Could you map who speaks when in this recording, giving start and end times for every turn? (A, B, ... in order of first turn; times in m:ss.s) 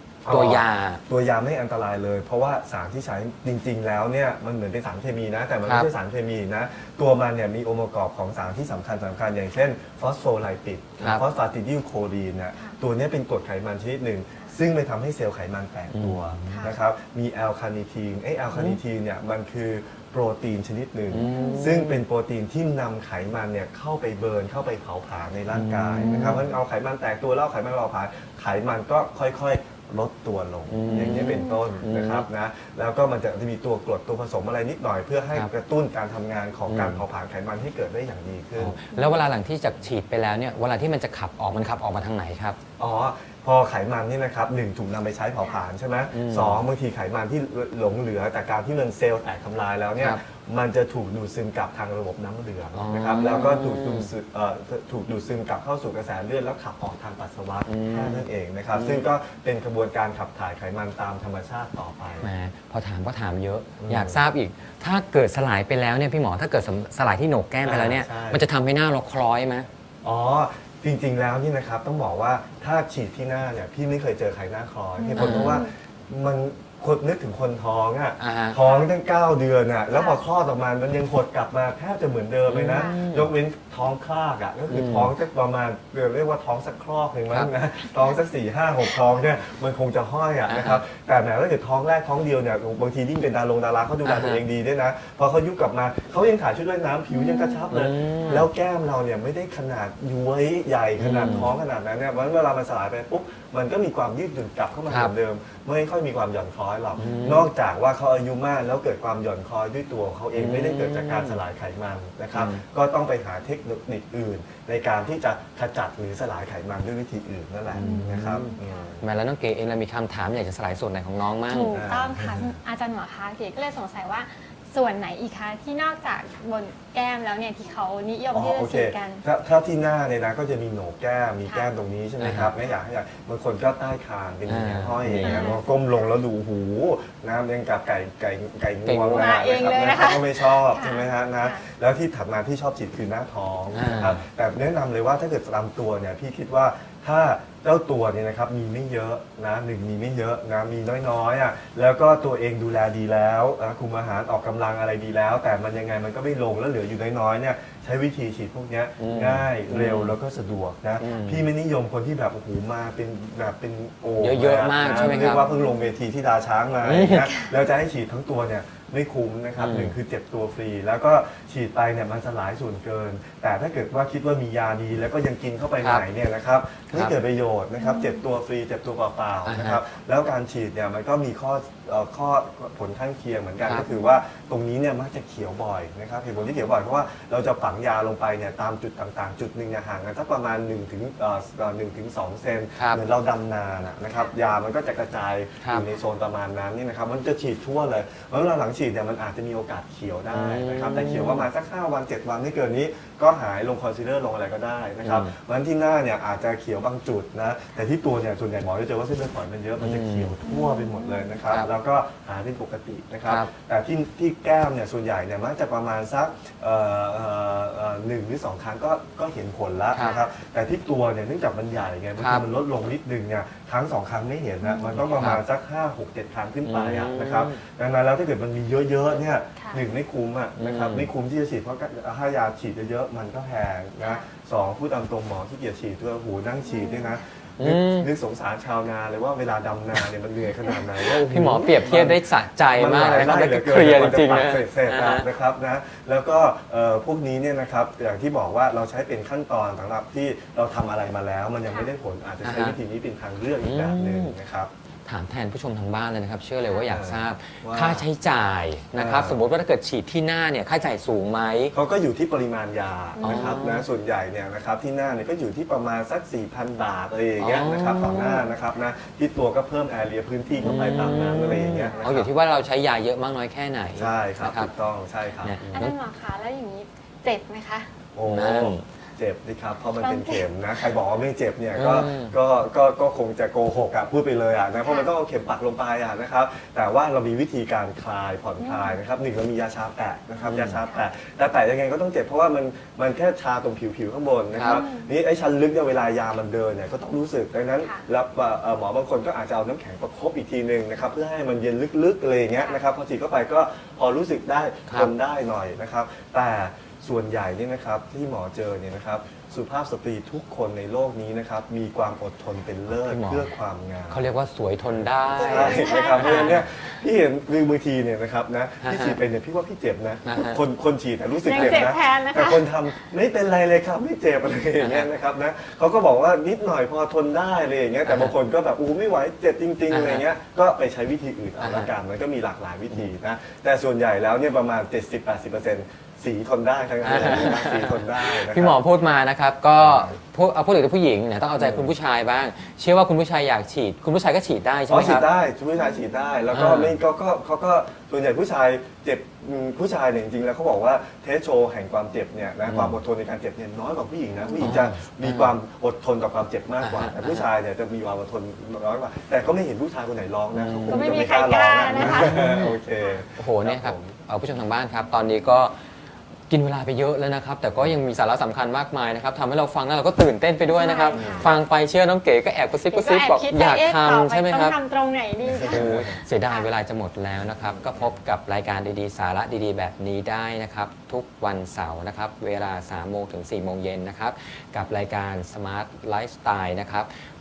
0:00.2-0:38.8 A
0:00.3-0:01.0 B
0:05.6-0:05.9 B
0:15.9-0:16.6 B
0:16.5-0:16.8 C
0:21.1-0:22.0 B
0:21.2-0:21.7 C
0:25.5-0:26.4 B
0:26.0-0:26.4 C
0:30.7-0:32.3 B
0:30.9-0:31.9 C
0:36.7-0:37.0 B
0:38.6-0:42.6 B
0:38.9-0:39.2 C
0:42.8-1:02.3 A
0:46.1-0:46.6 B
0:52.7-0:54.1 B
0:57.7-0:59.0 B
1:02.2-1:09.7 B
1:03.8-1:04.2 A
1:07.6-1:08.5 A
1:10.0-1:59.0 A
1:15.0-1:15.7 C
1:15.2-1:15.6 B
1:18.2-1:18.6 B
1:18.6-1:18.9 C
1:19.9-1:20.2 C
1:22.4-1:23.3 B
1:24.7-1:25.1 B
1:30.5-1:30.8 B
1:34.0-1:34.4 B
1:37.1-1:37.7 C
1:37.7-1:38.5 B
1:41.0-1:41.5 B
1:41.3-1:41.5 C
1:44.9-1:45.1 B
1:47.0-1:47.5 B
1:47.0-1:47.3 C
1:50.3-1:51.4 B
1:52.3-1:52.6 B
1:57.7-2:01.8 B
1:57.8-1:58.9 C
2:01.5-2:09.2 C
2:01.7-2:02.5 A
2:08.3-4:02.2 A
2:12.2-2:12.5 B
2:14.5-2:15.6 B
2:15.2-2:15.8 C
2:18.8-2:19.6 B
2:19.1-2:21.6 C
2:23.7-2:24.2 B
2:39.0-2:40.2 B
2:41.0-2:41.5 B
2:44.2-2:45.5 B
2:44.8-2:45.9 C
2:46.8-2:47.3 B
2:49.6-2:50.0 B
2:55.8-2:56.0 B
2:56.9-2:57.2 B
2:57.8-2:58.2 C
2:59.5-2:59.8 B
3:03.9-3:04.2 C
3:06.4-3:07.0 C
3:12.8-3:13.0 B
3:14.1-3:14.5 C
3:15.6-3:15.9 B
3:20.3-3:21.5 B
3:25.0-3:25.3 B
3:29.8-3:30.4 B
3:30.4-3:31.4 C
3:33.2-3:33.5 B
3:40.0-3:40.3 C
3:42.2-3:42.5 B
3:44.6-3:45.0 C
3:44.9-3:45.4 B
3:46.6-3:47.6 B
3:50.6-3:51.1 B
3:54.0-3:54.3 C
3:56.6-3:57.2 C
3:57.6-3:58.1 B
4:01.0-4:05.3 B
4:02.8-4:14.7 A
4:11.7-4:11.9 C
4:12.4-4:12.8 B
4:13.6-4:14.4 B
4:15.1-4:21.8 B
4:16.6-4:16.9 C
4:16.9-4:18.1 A
4:19.0-4:19.5 A
4:21.7-4:32.3 A
4:23.2-4:23.6 C
4:23.2-4:23.8 B
4:27.4-4:28.4 B
4:30.6-4:34.7 B
4:30.6-4:31.2 C
4:31.8-4:32.1 C
4:34.0-4:35.6 A
4:35.4-4:36.0 B
4:35.7-4:37.9 C
4:38.1-5:14.2 A
4:38.2-4:38.8 B
4:40.0-4:40.5 C
4:41.7-4:42.4 B
4:44.8-4:45.1 C
4:48.6-4:49.0 C
4:50.4-4:50.8 B
4:54.6-4:54.8 B
4:54.6-4:55.1 C
4:57.8-4:58.0 C
5:02.6-5:02.8 C
5:04.9-5:05.1 B
5:12.9-5:13.5 B
5:14.1-5:16.7 B
5:15.4-5:38.8 A
5:15.4-5:16.6 C
5:18.8-5:19.2 B
5:20.2-5:20.6 B
5:21.4-5:22.7 C
5:21.5-5:21.9 B
5:24.8-5:25.1 B
5:28.1-5:28.3 B
5:29.9-5:30.2 B
5:31.6-5:31.9 B
5:37.0-5:45.3 B
5:39.8-5:40.1 A
5:41.6-5:41.9 A
5:44.9-6:04.2 A
5:46.5-5:47.0 B
5:52.6-5:53.0 B
5:54.4-5:54.8 C
5:54.6-5:55.6 B
5:56.8-5:57.5 B
6:00.5-6:01.2 B
6:00.9-6:03.1 C
6:01.9-6:02.8 B
6:03.4-6:05.8 B
6:06.5-6:14.8 B
6:10.7-6:11.5 C
6:11.0-6:11.5 A
6:12.9-6:15.9 C
6:15.5-6:16.2 A
6:15.6-6:27.1 B
6:16.4-6:16.7 C